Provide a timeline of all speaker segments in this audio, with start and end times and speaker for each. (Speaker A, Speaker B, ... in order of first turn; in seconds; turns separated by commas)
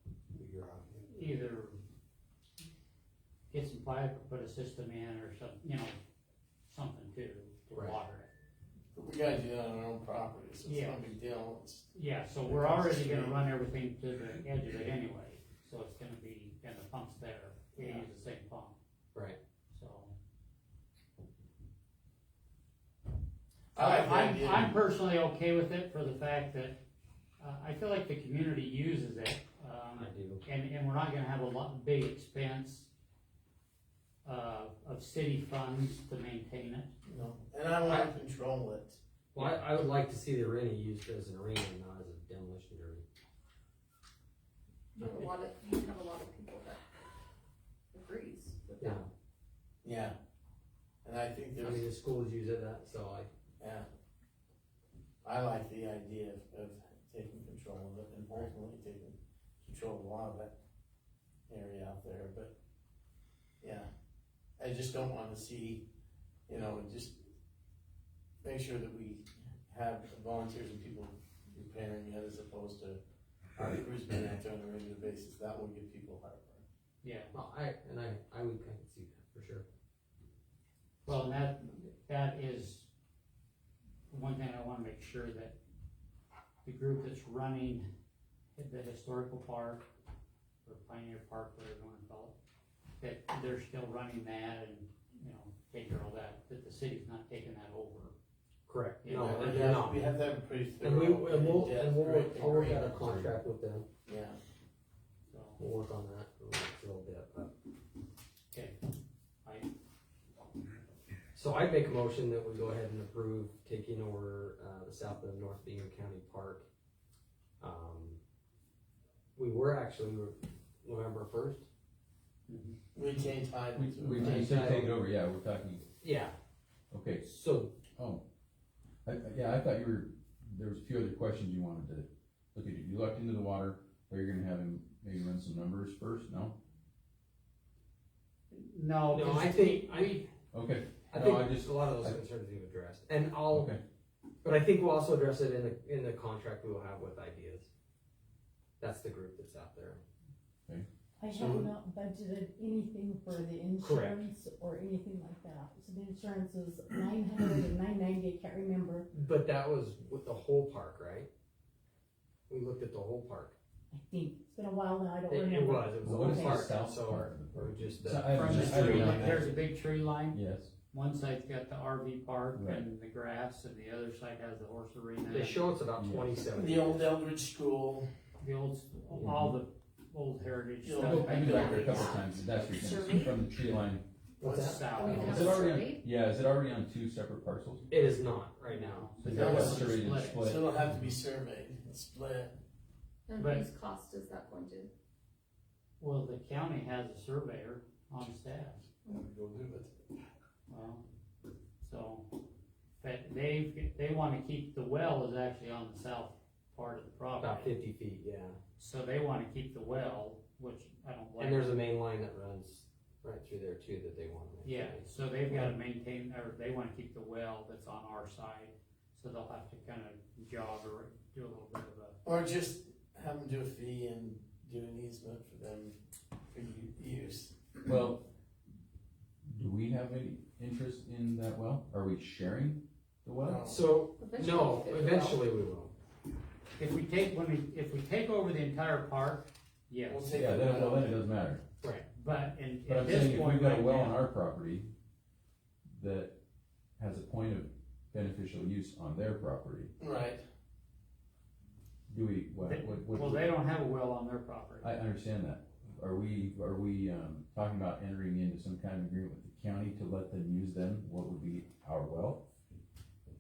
Speaker A: 0.3-1.4, Speaker B: 1.1-1.8, Speaker B: 3.5-6.0, Speaker B: 6.7-8.3, Speaker C: 8.9-11.9, Speaker B: 10.6-11.0, Speaker B: 11.9-18.8, Speaker C: 12.4-13.4, Speaker C: 17.8-18.0, Speaker B: 19.7-20.1, Speaker C: 23.7-24.8, Speaker B: 23.7-26.8, Speaker B: 27.4-32.9, Speaker A: 30.0-30.4, Speaker B: 34.2-36.9, Speaker C: 37.0-39.0, Speaker A: 37.8-38.1, Speaker A: 39.3-43.0, Speaker D: 45.0-46.8, Speaker B: 45.0-45.3, Speaker D: 47.9-49.0, Speaker A: 48.8-49.1, Speaker C: 49.8-50.2, Speaker C: 51.0-51.9, Speaker A: 51.6-53.3, Speaker C: 53.6-53.9, Speaker C: 55.2-60.5, Speaker C: 61.5-62.5, Speaker C: 63.6-63.9, Speaker C: 64.6-65.8, Speaker C: 66.5-67.2, Speaker C: 68.4-73.0, Speaker C: 73.5-76.6, Speaker B: 77.0-77.3, Speaker A: 77.3-79.6, Speaker B: 81.0-82.9, Speaker B: 84.1-85.5, Speaker B: 86.6-87.9, Speaker B: 88.5-89.8, Speaker B: 90.6-92.3, Speaker B: 93.0-98.1, Speaker A: 98.7-100.1, Speaker B: 99.0-99.8, Speaker C: 99.1-103.4, Speaker A: 100.8-103.8, Speaker C: 104.0-104.4, Speaker B: 105.3-105.6, Speaker A: 105.6-107.5, Speaker B: 108.5-108.8, Speaker A: 111.3-116.7, Speaker A: 117.6-118.2, Speaker A: 119.3-121.7, Speaker B: 122.5-122.7, Speaker C: 122.9-124.5, Speaker E: 123.8-125.8, Speaker A: 124.2-124.9, Speaker A: 126.0-126.3, Speaker E: 126.9-127.2, Speaker A: 127.2-127.7, Speaker E: 128.0-128.2, Speaker E: 129.1-136.6, Speaker B: 138.5-140.3, Speaker A: 139.1-140.2, Speaker E: 140.5-142.2, Speaker A: 141.1-143.8, Speaker E: 143.5-143.8, Speaker A: 144.4-147.7, Speaker A: 148.8-150.0, Speaker F: 151.2-159.1, Speaker C: 151.3-151.7, Speaker A: 153.8-154.2, Speaker A: 159.1-161.3, Speaker A: 162.5-163.6, Speaker F: 163.9-166.8, Speaker A: 165.3-169.1, Speaker E: 166.0-169.5, Speaker B: 168.3-170.4, Speaker C: 168.5-169.5, Speaker E: 170.3-170.7, Speaker B: 170.9-175.6, Speaker E: 172.5-172.8, Speaker A: 175.3-177.0, Speaker E: 175.9-176.3, Speaker C: 176.5-178.1, Speaker B: 178.4-181.9, Speaker A: 179.1-179.5, Speaker C: 180.8-182.1, Speaker E: 181.2-184.0, Speaker D: 181.4-183.4, Speaker A: 184.4-185.5, Speaker C: 184.4-185.5, Speaker B: 184.4-185.6, Speaker D: 184.9-186.0, Speaker E: 185.1-188.0, Speaker A: 187.9-189.9, Speaker B: 188.7-190.5, Speaker E: 189.2-190.7, Speaker C: 189.3-192.5, Speaker D: 193.3-194.9, Speaker B: 193.4-193.7, Speaker B: 196.0-198.8, Speaker C: 199.1-200.0, Speaker B: 200.7-201.0, Speaker B: 201.8-202.3, Speaker B: 203.0-207.7, Speaker A: 207.4-208.6, Speaker B: 208.8-211.9, Speaker A: 211.4-215.1, Speaker B: 214.6-222.2, Speaker C: 222.2-225.9, Speaker C: 226.5-227.6, Speaker E: 227.9-228.2, Speaker E: 229.5-233.6, Speaker C: 233.4-233.9, Speaker A: 233.6-235.9, Speaker D: 234.2-235.4, Speaker B: 236.8-240.4, Speaker C: 240.1-241.2, Speaker E: 240.3-241.6, Speaker A: 241.8-242.1, Speaker B: 242.1-244.2, Speaker E: 242.9-244.9, Speaker E: 245.9-246.4, Speaker E: 247.0-249.9, Speaker C: 250.0-250.4, Speaker E: 252.1-253.5, Speaker B: 252.6-254.9, Speaker E: 254.8-262.4